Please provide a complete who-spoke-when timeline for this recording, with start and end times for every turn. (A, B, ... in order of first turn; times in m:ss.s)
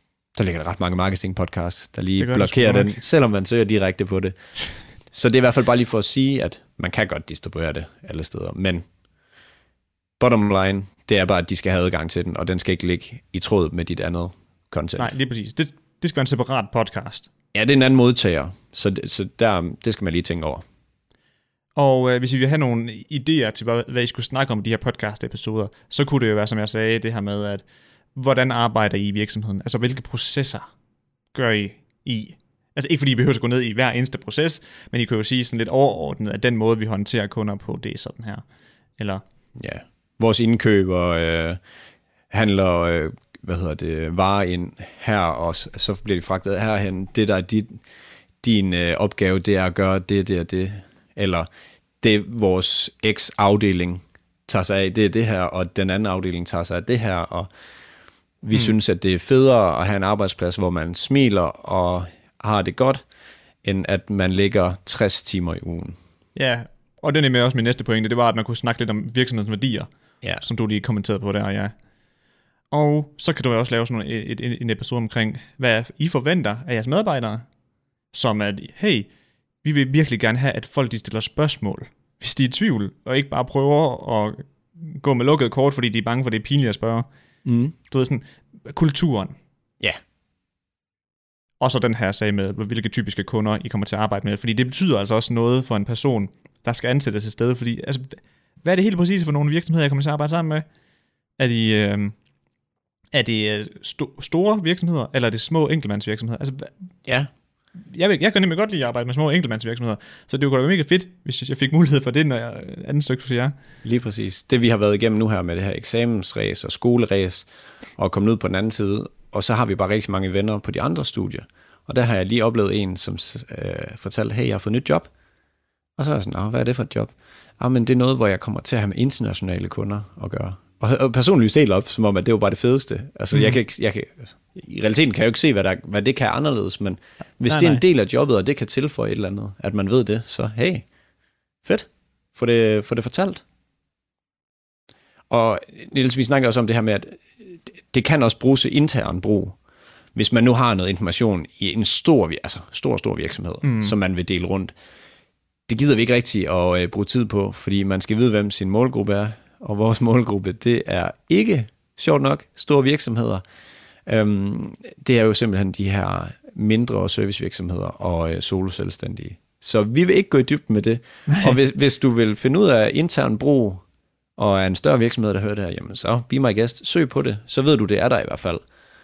0:00.4-0:04.3 A
0:02.2-0:03.0 B
0:05.1-0:08.8 A
0:10.2-0:15.1 A
0:15.0-0:17.3 B
0:17.5-0:20.6 A
0:21.8-0:30.6 B
0:31.3-0:38.4 B
0:39.0-0:39.2 B
0:39.6-0:41.6 A
0:42.3-0:47.8 A
0:48.4-0:51.5 A
0:52.0-0:57.5 A
0:58.4-1:03.0 A
1:03.6-1:06.0 A
1:06.4-1:09.9 B
1:10.4-1:11.7 B
1:12.7-1:17.4 B
1:18.1-1:19.1 B
1:19.6-1:27.1 B
1:27.4-1:27.7 A
1:27.9-1:29.4 B
1:31.6-1:40.6 B
1:41.4-1:42.1 B
1:43.1-1:46.7 B
1:47.9-1:53.5 B
1:53.8-2:05.1 A
2:06.0-2:20.8 A
2:17.5-2:17.8 B
2:21.6-2:23.4 A
2:25.3-2:29.6 A
2:30.1-2:34.7 A
2:33.6-2:34.0 B
2:35.7-2:43.4 A
2:44.0-2:53.8 A
2:51.3-2:51.5 B
2:54.4-2:58.6 A